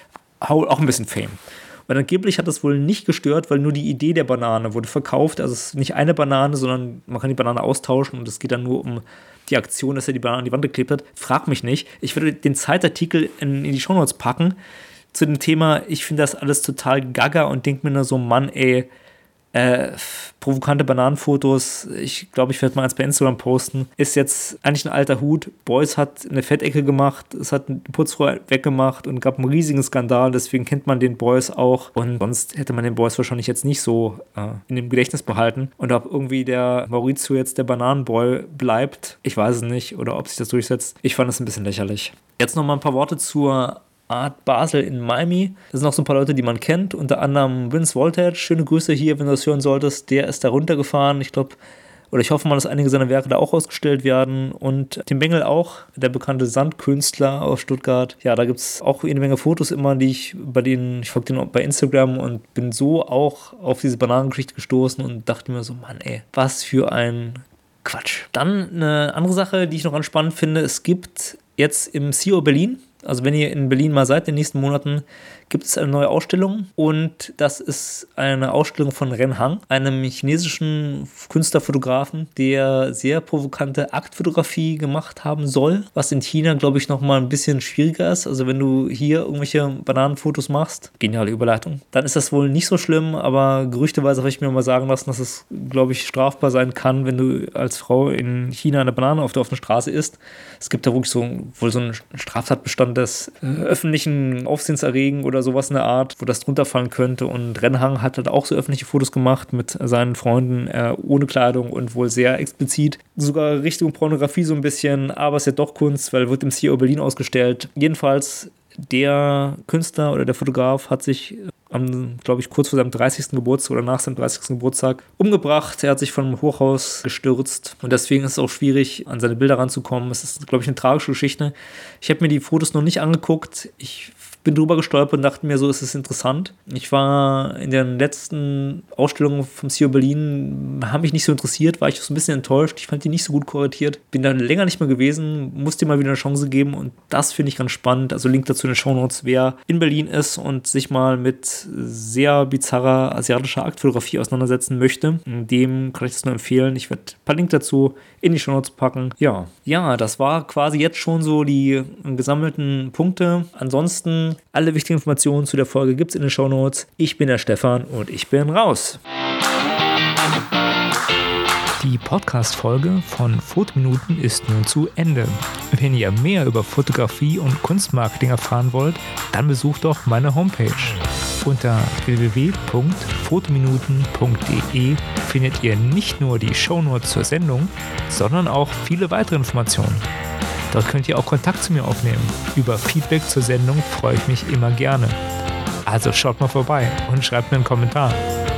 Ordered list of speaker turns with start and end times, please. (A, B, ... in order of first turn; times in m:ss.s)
0:00.4-0:14.6 A
0:15.1-0:18.9 A
0:19.5-0:51.6 A
0:52.1-2:49.0 A
2:51.8-3:10.0 A
3:10.7-3:15.2 A
3:15.8-3:18.2 A